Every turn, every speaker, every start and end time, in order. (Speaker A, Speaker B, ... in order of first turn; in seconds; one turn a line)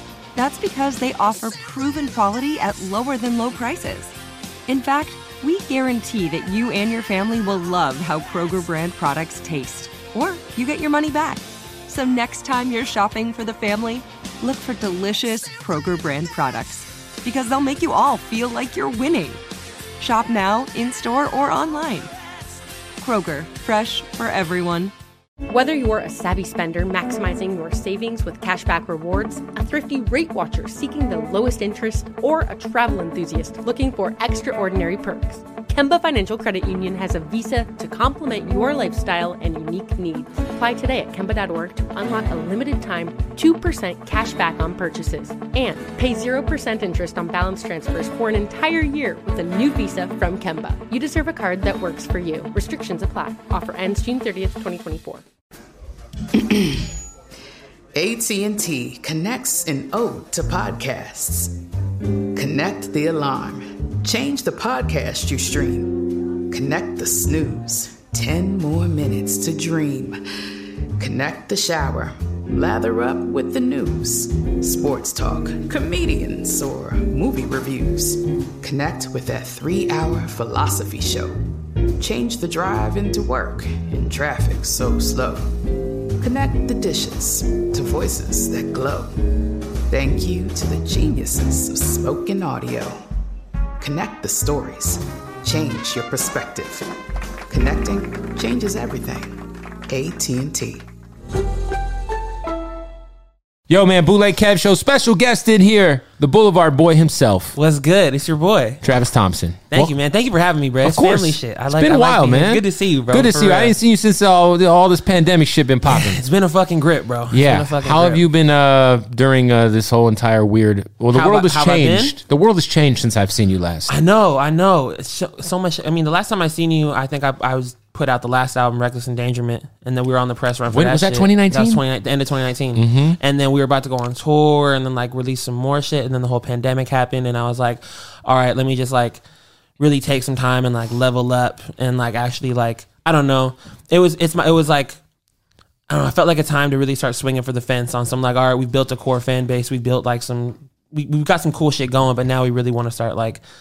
Speaker A: 0.4-4.1
Speaker A: 4.7-19.4
Speaker A: 20.0-22.1
Speaker A: 23.0-24.9
Speaker B: 25.5-55.2
Speaker C: 56.3-56.9
Speaker C: 58.0-61.5
Speaker C: 62.4-70.2
Speaker C: 71.0-81.4
Speaker C: 82.0-85.5
Speaker C: 86.2-89.1
Speaker C: 89.9-93.0
Speaker C: 93.8-96.8
Speaker C: 97.5-100.9
Speaker D: 103.7-107.6
Speaker E: 107.5-108.8
Speaker D: 108.8-109.9
Speaker E: 109.7-113.8
Speaker D: 110.8-116.2
Speaker E: 115.9-118.2
Speaker D: 117.3-123.9
Speaker E: 121.1-122.2
Speaker E: 123.9-139.2
Speaker D: 130.7-131.8
Speaker D: 132.8-133.2
Speaker E: 139.8-145.0
Speaker E: 145.9-153.4